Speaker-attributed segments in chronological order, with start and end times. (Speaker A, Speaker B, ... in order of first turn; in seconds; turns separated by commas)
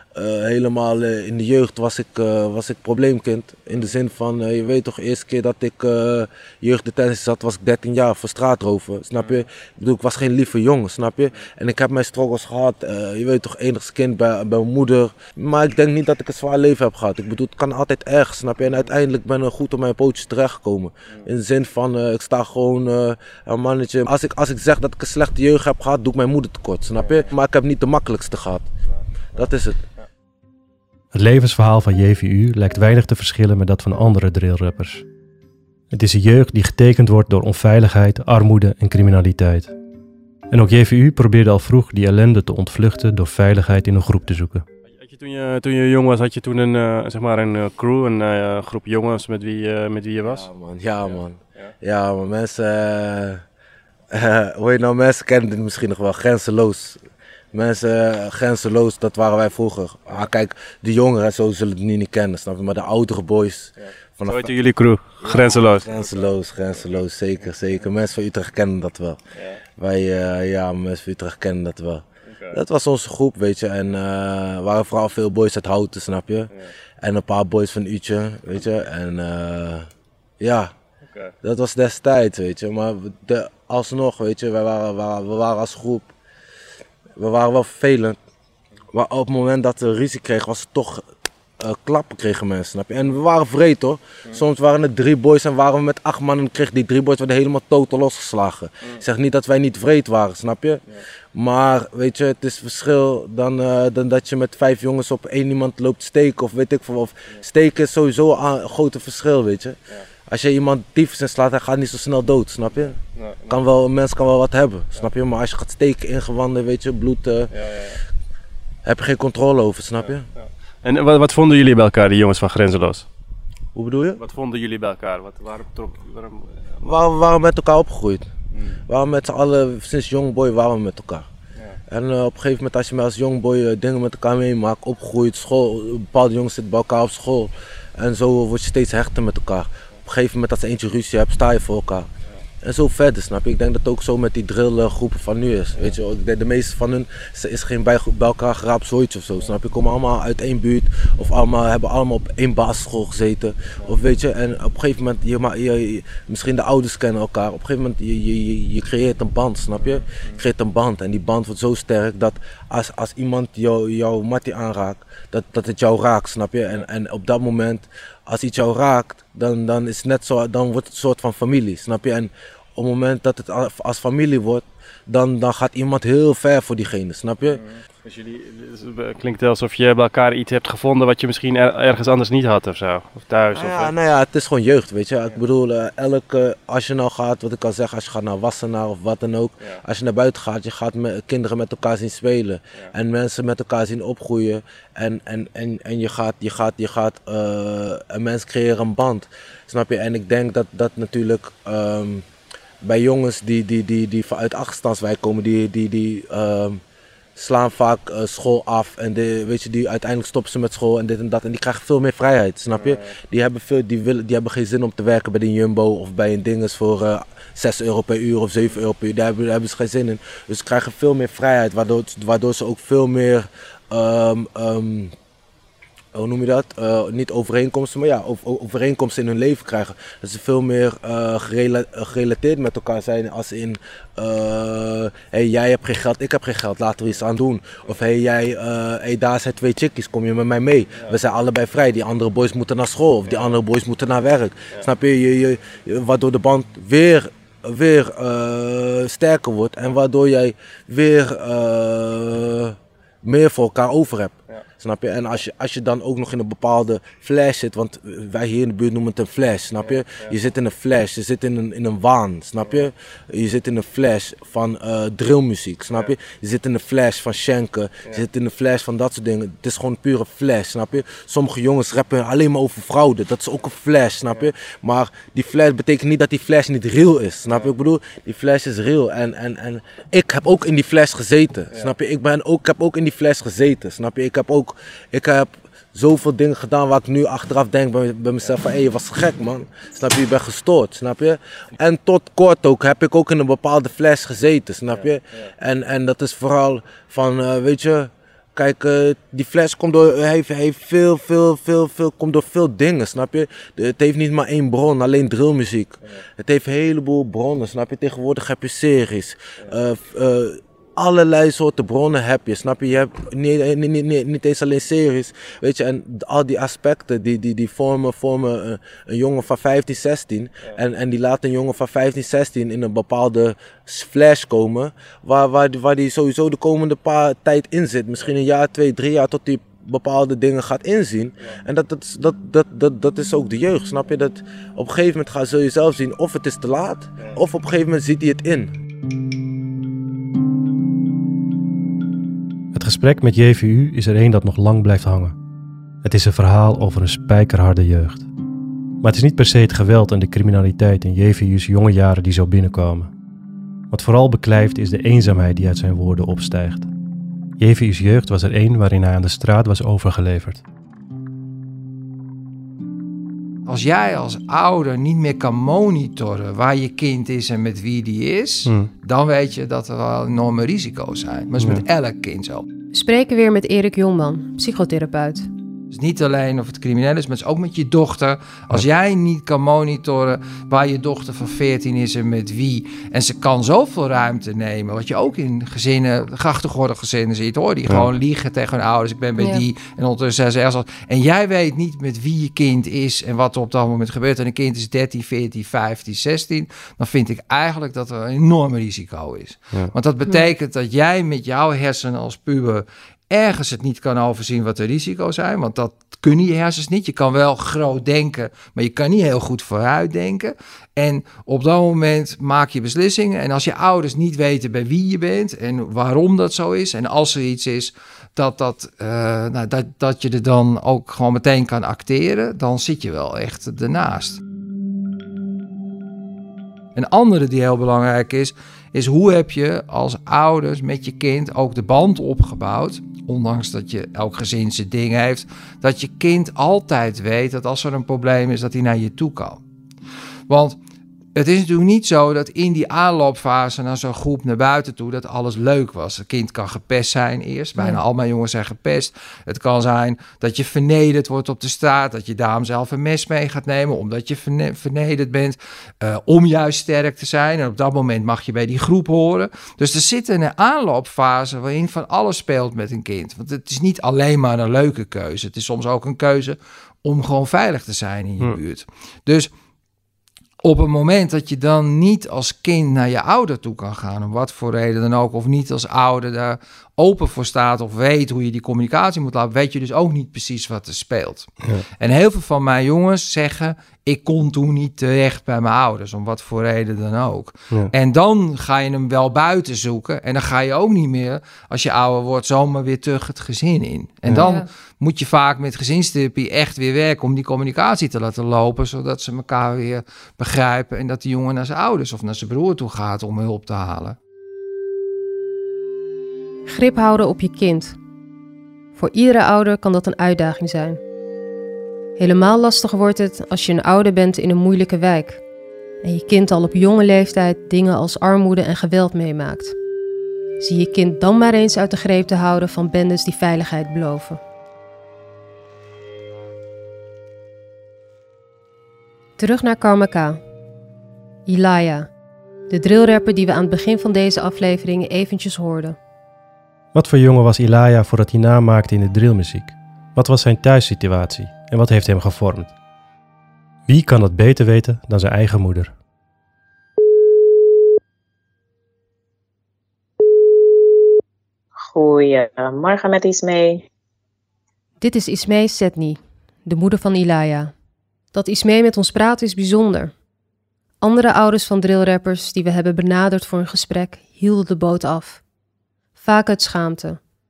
Speaker A: 0.1-28.7, Speaker B: 18.6-18.9, Speaker B: 26.9-27.3, Speaker B: 28.9-30.1, Speaker A: 29.4-29.8, Speaker C: 31.1-35.0, Speaker C: 35.9-39.7, Speaker C: 40.5-44.6, Speaker B: 44.8-50.5, Speaker A: 50.2-53.4, Speaker B: 51.0-51.7, Speaker A: 54.1-57.0, Speaker A: 57.5-64.5, Speaker B: 63.8-67.9, Speaker A: 65.2-69.2, Speaker B: 69.3-69.6, Speaker A: 69.8-76.5, Speaker B: 72.2-72.6, Speaker A: 77.0-79.9, Speaker A: 80.4-80.7, Speaker B: 81.0-81.3, Speaker A: 81.4-86.1, Speaker A: 87.2-88.2, Speaker A: 88.9-91.1, Speaker A: 91.6-100.8, Speaker A: 101.3-113.0, Speaker B: 112.8-113.7, Speaker A: 113.5-117.5, Speaker B: 117.5-118.0, Speaker A: 118.8-120.3, Speaker B: 120.0-123.0, Speaker A: 123.7-124.2, Speaker B: 124.2-126.9, Speaker A: 126.8-128.3, Speaker B: 128.5-128.8, Speaker A: 128.9-131.3, Speaker A: 131.9-142.1, Speaker A: 142.6-177.6, Speaker B: 159.8-160.5, Speaker B: 177.4-183.9, Speaker A: 183.5-202.3, Speaker A: 202.8-206.8, Speaker A: 207.4-225.1, Speaker B: 212.7-213.2, Speaker A: 226.1-338.7, Speaker B: 240.9-241.2, Speaker B: 243.3-243.6, Speaker B: 259.8-260.4, Speaker B: 262.6-262.9, Speaker B: 277.5-277.7, Speaker C: 342.7-345.4, Speaker C: 346.0-348.3, Speaker C: 349.0-353.1, Speaker C: 353.9-356.9, Speaker C: 357.6-360.6, Speaker D: 363.7-372.6, Speaker E: 372.9-375.5, Speaker D: 375.9-424.4, Speaker E: 389.4-389.6, Speaker D: 426.9-439.6, Speaker D: 440.5-440.8, Speaker D: 441.4-469.5, Speaker E: 447.8-448.0, Speaker D: 470.6-504.2, Speaker E: 494.4-494.7, Speaker E: 506.7-508.0, Speaker E: 509.0-511.0, Speaker E: 512.2-515.4, Speaker E: 516.0-519.8, Speaker E: 520.6-524.4, Speaker E: 529.4-530.4, Speaker E: 531.5-532.1, Speaker E: 532.7-536.0, Speaker C: 536.9-542.7, Speaker C: 543.9-545.9, Speaker F: 551.9-553.9, Speaker E: 555.0-557.7, Speaker E: 558.3-560.1, Speaker E: 561.0-565.4, Speaker E: 566.2-567.2